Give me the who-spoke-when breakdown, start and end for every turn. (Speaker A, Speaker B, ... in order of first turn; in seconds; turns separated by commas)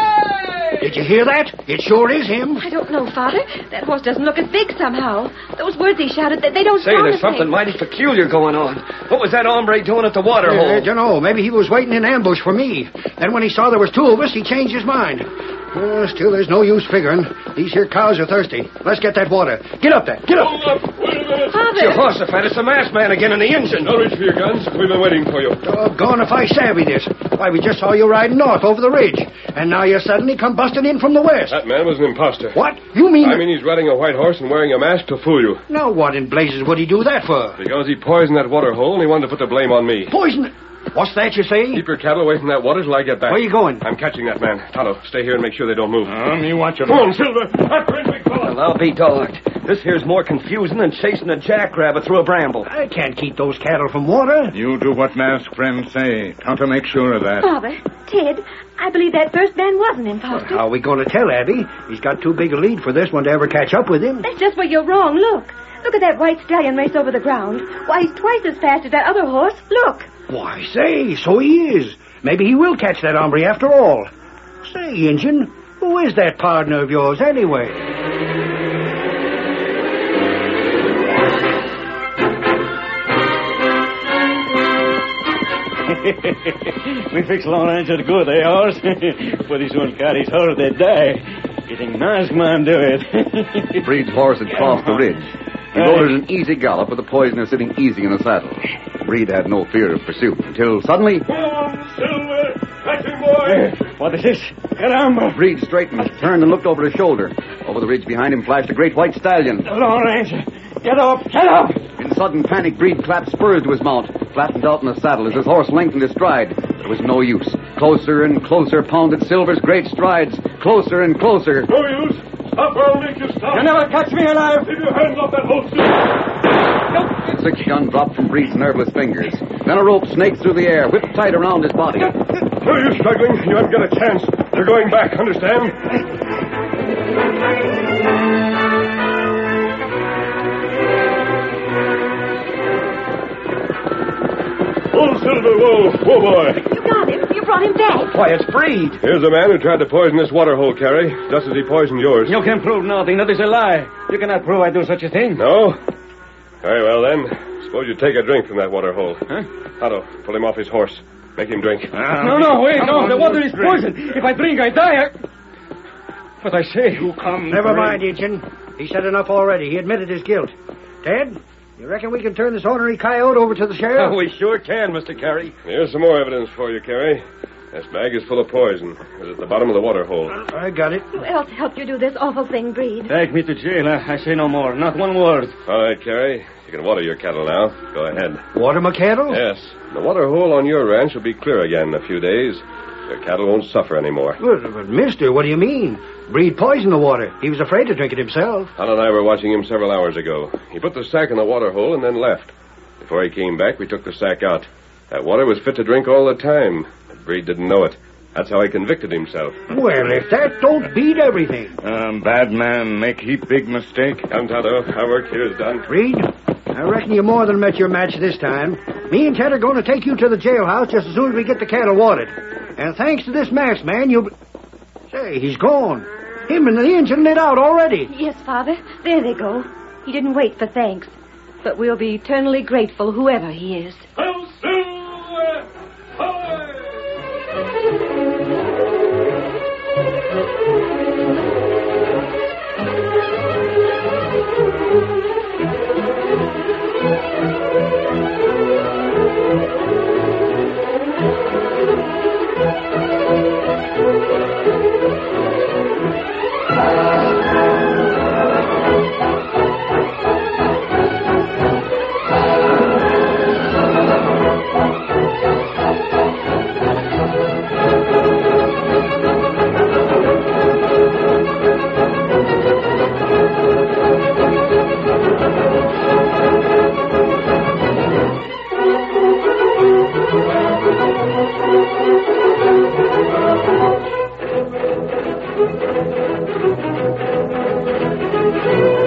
Speaker A: 0.8-2.6, Speaker B: 2.6-7.5, Speaker C: 6.8-10.9, Speaker A: 10.4-20.7, Speaker D: 20.4-21.6, Speaker B: 21.5-22.1, Speaker C: 21.7-23.9, Speaker D: 23.8-25.6, Speaker A: 25.6-31.6, Speaker D: 31.5-32.6, Speaker A: 32.5-33.5, Speaker D: 33.2-35.6, Speaker A: 35.7-37.6, Speaker D: 37.6-40.1, Speaker A: 40.1-41.9, Speaker D: 41.7-46.1, Speaker A: 43.3-43.8, Speaker E: 46.0-47.1, Speaker D: 46.8-48.6, Speaker C: 48.4-52.7, Speaker A: 52.6-54.5, Speaker E: 54.5-57.5, Speaker B: 57.4-60.6, Speaker A: 60.3-64.2, Speaker B: 64.2-70.1, Speaker A: 70.3-74.1, Speaker A: 74.6-77.8, Speaker F: 85.9-93.8, Speaker G: 93.8-101.2, Speaker F: 94.5-95.0, Speaker F: 95.7-96.1, Speaker D: 101.3-103.7, Speaker F: 103.4-105.4, Speaker G: 105.3-109.7, Speaker F: 109.6-111.8, Speaker G: 112.0-121.7, Speaker D: 121.7-123.8, Speaker F: 123.5-124.7, Speaker D: 124.6-126.1, Speaker G: 127.3-132.1, Speaker D: 132.6-136.0, Speaker D: 144.9-146.6, Speaker B: 146.6-148.1, Speaker C: 148.1-149.0, Speaker D: 149.0-152.4, Speaker F: 152.2-155.4, Speaker D: 155.3-155.8, Speaker D: 156.6-159.2, Speaker D: 159.8-161.9, Speaker E: 161.9-163.9, Speaker F: 162.2-165.1, Speaker F: 166.4-167.1, Speaker E: 166.9-168.0, Speaker A: 167.5-174.2, Speaker C: 173.9-175.5, Speaker D: 175.6-180.3, Speaker A: 180.3-181.1, Speaker B: 181.1-183.1, Speaker F: 183.1-185.5, Speaker D: 185.7-188.4, Speaker A: 188.5-189.4, Speaker D: 189.3-194.4, Speaker A: 194.4-198.7, Speaker D: 198.8-209.6, Speaker A: 209.7-211.8, Speaker E: 211.8-214.3, Speaker D: 214.3-215.9, Speaker A: 215.9-224.3, Speaker A: 225.1-228.1, Speaker B: 228.1-234.0, Speaker D: 234.2-235.6, Speaker D: 236.2-237.0